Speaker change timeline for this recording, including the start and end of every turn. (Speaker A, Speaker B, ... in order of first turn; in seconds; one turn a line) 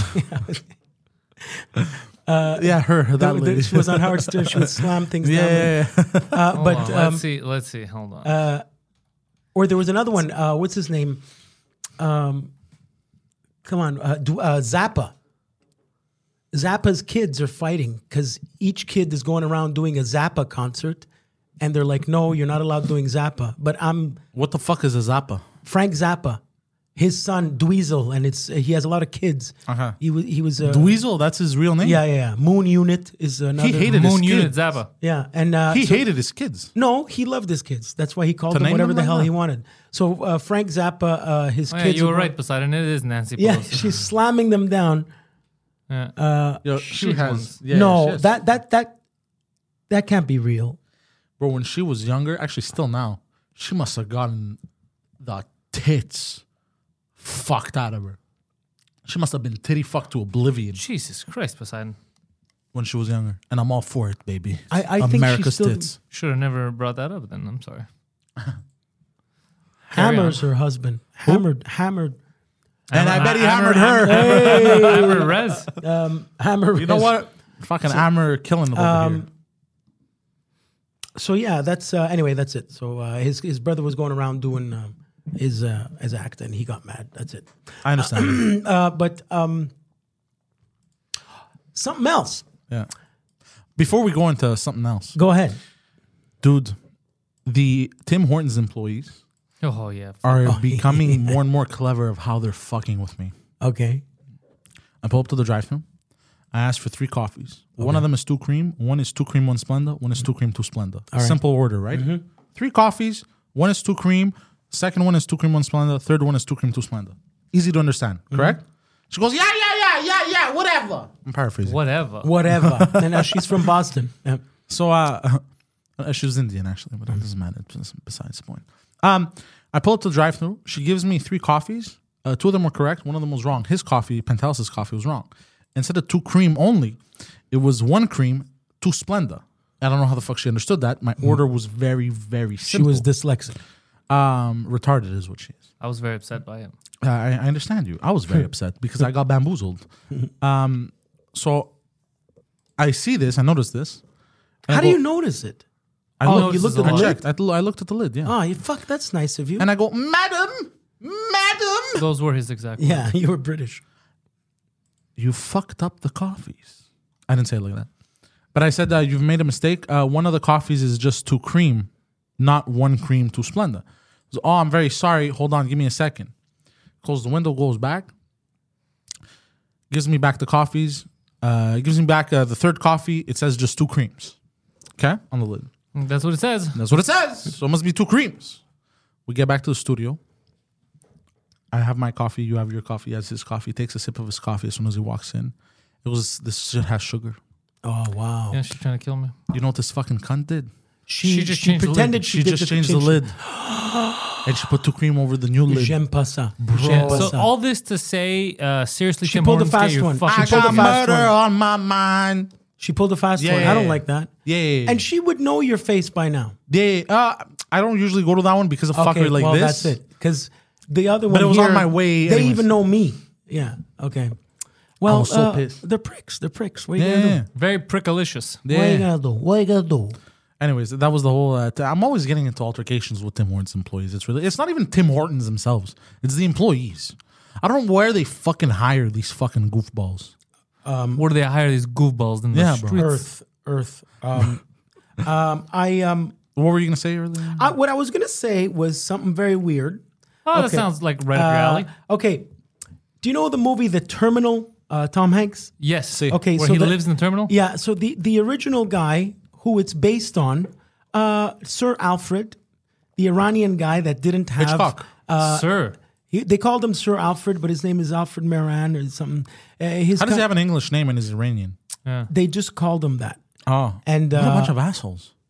Speaker A: 0.1-0.7
Speaker A: 2.3-7.2
Speaker B: 2.6-6.5
Speaker C: 6.5-8.3
Speaker A: 8.2-8.6
Speaker A: 9.5-11.2
Speaker A: 12.0-12.5
Speaker A: 13.6-15.1
Speaker A: 16.5-21.1
Speaker A: 21.6-24.2
Speaker B: 24.3-25.4
Speaker A: 25.6-26.4
Speaker A: 27.0-31.0
Speaker B: 29.7-30.0
Speaker B: 30.6-32.0
Speaker A: 31.8-34.0
Speaker B: 33.6-34.6
Speaker C: 33.9-34.9
Speaker A: 35.0-36.1
Speaker B: 35.7-36.7
Speaker A: 36.7-42.3
Speaker B: 38.5-39.3
Speaker C: 41.7-44.0
Speaker A: 43.4-45.1
Speaker A: 46.2-46.6
Speaker B: 46.6-48.3
Speaker C: 46.8-47.6
Speaker A: 47.7-49.0
Speaker A: 49.9-50.8
Speaker B: 51.4-54.6
Speaker B: 55.2-56.4
Speaker B: 57.2-58.2
Speaker B: 59.0-60.8
Speaker C: 60.7-62.0
Speaker B: 62.7-66.0
Speaker A: 64.7-65.9
Speaker C: 66.1-67.9
Speaker C: 69.9-70.4
Speaker A: 69.9-72.2
Speaker C: 72.9-75.7
Speaker B: 72.9-75.3
Speaker A: 73.9-77.2
Speaker B: 76.8-79.3
Speaker A: 78.7-79.3
Speaker A: 81.2-89.7
Speaker B: 87.8-88.5
Speaker A: 91.7-92.5
Speaker B: 93.8-95.2
Speaker A: 95.2-95.6
Speaker B: 96.4-96.8
Speaker B: 97.5-99.2
Speaker C: 99.6-100.2
Speaker B: 100.2-103.3
Speaker A: 100.5-101.4
Speaker A: 103.6-104.0
Speaker B: 105.0-105.8
Speaker B: 106.5-121.8
Speaker A: 107.8-108.0
Speaker A: 111.1-111.4
Speaker A: 111.9-112.2
Speaker C: 121.7-122.3
Speaker A: 122.2-124.4
Speaker B: 122.5-123.7
Speaker B: 124.7-125.4
Speaker B: 126.0-143.1
Speaker A: 142.7-143.6
Speaker B: 144.1-145.7
Speaker C: 145.8-146.7
Speaker B: 147.0-149.8
Speaker B: 150.4-151.7
Speaker B: 152.8-154.0
Speaker B: 154.7-155.0
Speaker A: 154.7-155.6
Speaker B: 156.2-158.4
Speaker A: 156.2-157.2
Speaker C: 156.2-157.2
Speaker A: 158.2-159.7
Speaker B: 159.6-162.1
Speaker C: 161.9-163.1
Speaker A: 162.8-163.8
Speaker B: 165.2-166.8
Speaker B: 167.3-167.9
Speaker B: 168.5-176.3
Speaker B: 177.0-178.1
Speaker B: 179.9-184.4
Speaker B: 185.0-185.7
Speaker C: 185.9-186.9
Speaker B: 186.8-188.6
Speaker B: 189.3-190.2
Speaker B: 191.7-197.4
Speaker A: 197.8-198.6
Speaker C: 198.5-199.3
Speaker B: 199.5-200.7
Speaker A: 201.1-204.5
Speaker C: 201.2-202.1
Speaker B: 202.1-203.4
Speaker B: 204.4-206.0
Speaker A: 205.7-207.5
Speaker C: 206.7-211.0
Speaker B: 206.7-207.3
Speaker A: 209.2-211.3
Speaker B: 210.3-212.5
Speaker A: 212.8-214.3
Speaker B: 213.4-215.0
Speaker C: 213.5-213.9
Speaker A: 214.8-216.6
Speaker B: 216.7-220.0
Speaker A: 218.9-224.4
Speaker B: 221.3-222.7
Speaker A: 225.0-227.4
Speaker B: 225.1-225.8
Speaker B: 227.0-227.5
Speaker C: 227.5-228.6
Speaker B: 228.6-229.1
Speaker A: 228.7-230.2
Speaker B: 230.6-240.3
Speaker A: 240.8-241.2
Speaker C: 241.2-243.3
Speaker B: 242.5-243.0
Speaker A: 243.0-244.6
Speaker A: 245.2-246.4
Speaker B: 246.6-247.7
Speaker A: 247.6-252.5
Speaker C: 250.5-251.9
Speaker A: 253.2-255.7
Speaker C: 255.8-257.5
Speaker B: 256.1-256.4
Speaker A: 256.3-262.6
Speaker A: 263.2-265.8
Speaker B: 264.6-265.1
Speaker C: 265.4-266.0
Speaker A: 266.3-270.5
Speaker B: 270.2-271.8
Speaker A: 272.3-273.4
Speaker B: 273.7-275.3
Speaker A: 274.1-274.8